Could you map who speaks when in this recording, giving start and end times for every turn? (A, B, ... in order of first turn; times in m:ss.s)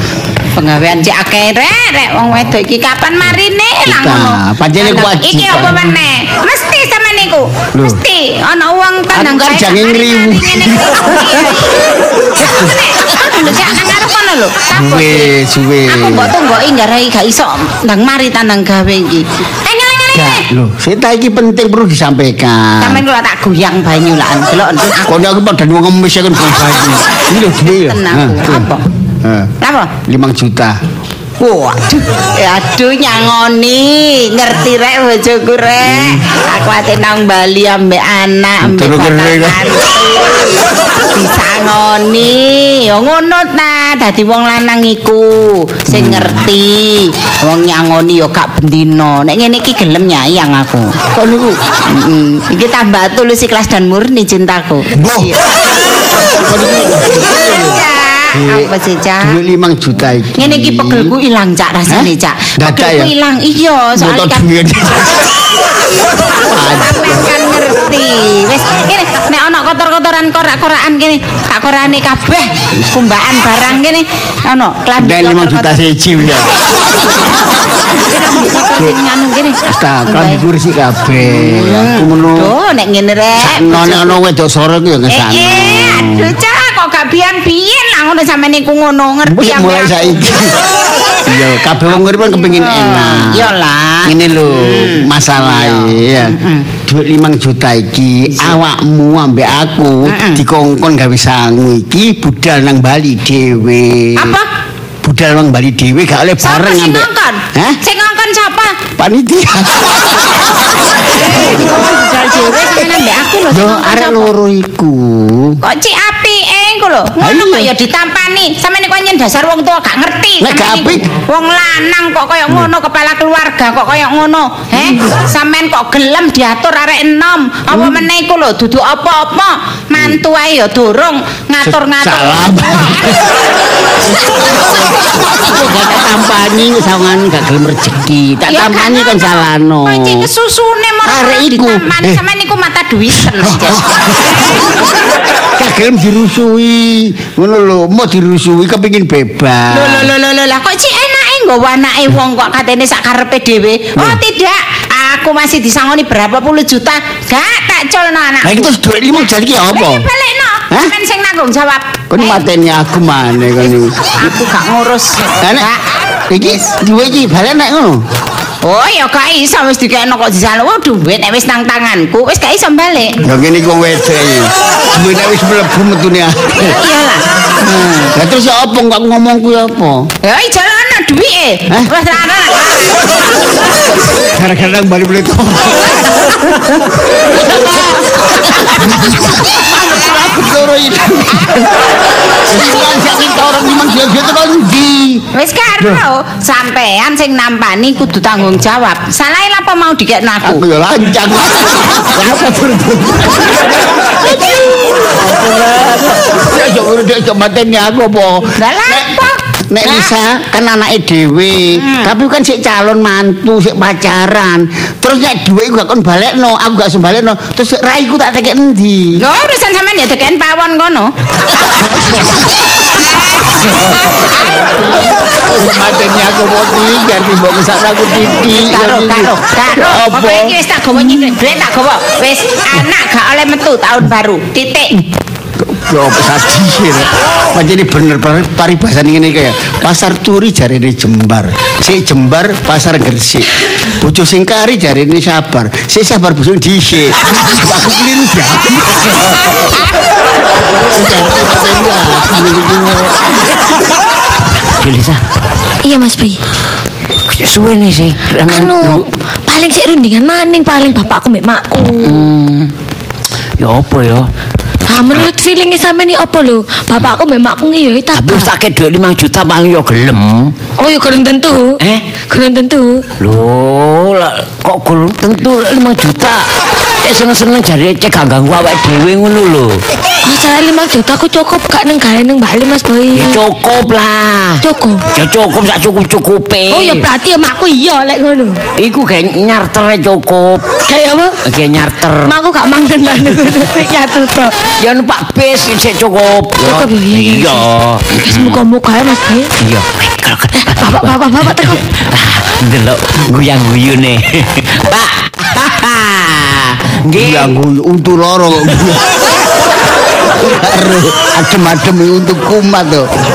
0:00.5-0:15.3 A
0:03.8-0:05.8 B
0:07.7-0:08.0 B
0:09.1-0:11.5 B
0:12.4-0:12.7 B
0:14.7-0:16.3 B
0:15.9-0:20.4 A
0:20.1-0:23.0 B
0:22.8-0:25.1 A
0:25.0-0:28.7 B
0:27.7-0:28.8 A
0:29.2-0:29.5 B
0:29.6-0:30.0 A
0:30.0-0:30.8 B
0:31.4-0:51.0 A
0:35.8-0:36.2 B
0:38.6-0:39.6 B
0:45.9-0:46.5 B
0:51.1-0:51.6 B
0:51.9-0:55.4 A
0:54.9-0:55.3 B
0:56.2-1:01.1 B
0:57.5-0:59.4 A
1:00.4-1:04.4 A
1:01.9-1:03.1 B
1:04.0-1:05.3 B
1:06.5-1:07.3 B
1:06.8-1:15.8 A
1:15.0-1:16.5 B
1:17.9-1:20.4 A
1:19.6-1:22.5 B
1:21.2-1:24.2 A
1:23.4-1:26.3 B
1:25.1-1:30.1 A
1:29.2-1:30.5 B
1:31.2-1:33.5 B
1:32.4-1:36.7 A
1:34.0-1:44.4 B
1:40.0-1:40.4 A
1:44.2-1:44.5 A
1:45.0-1:47.8 B
1:46.4-1:48.8 A
1:49.0-1:49.9 B
1:51.2-1:54.3 A
1:53.5-1:55.6 B
1:55.6-2:13.2 A
1:57.2-1:57.7 B
2:00.4-2:01.1 B
2:04.8-2:05.0 B
2:07.7-2:08.0 B
2:11.6-2:13.2 B
2:14.1-2:20.3 B
2:18.4-2:23.8 A
2:21.0-2:22.2 B
2:23.1-2:24.7 B
2:25.6-2:30.1 B
2:29.7-2:38.7 A
2:34.0-2:34.2 B
2:38.4-2:40.1 B
2:39.7-2:42.4 A
2:42.1-2:44.1 B
2:44.2-2:45.8 A
2:45.4-2:45.7 B
2:46.3-2:48.0 B
2:48.6-2:53.2 A
2:53.2-2:56.8 B
2:56.6-2:58.1 A
2:58.1-3:00.1 B
3:00.2-3:03.2 A
3:04.2-3:11.9 B
3:12.4-3:15.2 B
3:15.3-3:20.6 A
3:20.4-3:29.2 B
3:28.6-3:30.1 A
3:29.7-3:39.2 B
3:31.7-3:32.1 A
3:39.2-3:41.1 A
3:41.7-3:42.5 B
3:43.6-3:50.5 B
3:48.5-3:55.0 A
3:55.6-4:09.8 B
4:10.6-4:13.2 B
4:14.6-4:15.2 C
4:15.8-4:16.4 D
4:17.2-4:19.0 C
4:18.5-4:22.3 D
4:21.9-4:22.7 C
4:23.6-4:24.3 C
4:24.8-4:28.5 D
4:28.1-4:30.5 C
4:30.8-4:33.0 D
4:31.8-4:32.0 C
4:33.2-4:36.5 C
4:37.0-4:39.8 C
4:40.2-4:43.4 D
4:43.1-4:47.1 C
4:44.6-4:45.0 D
4:46.7-4:48.6 D
4:48.8-4:50.6 C
4:50.8-4:51.4 D
4:51.4-4:52.3 C
4:52.2-4:54.6 D
4:54.8-4:58.6 C
4:56.6-4:57.7 D
4:58.2-4:59.5 D
4:59.6-5:07.5 C
5:00.6-5:01.8 D
5:07.2-5:09.1 B
5:10.3-5:13.1 B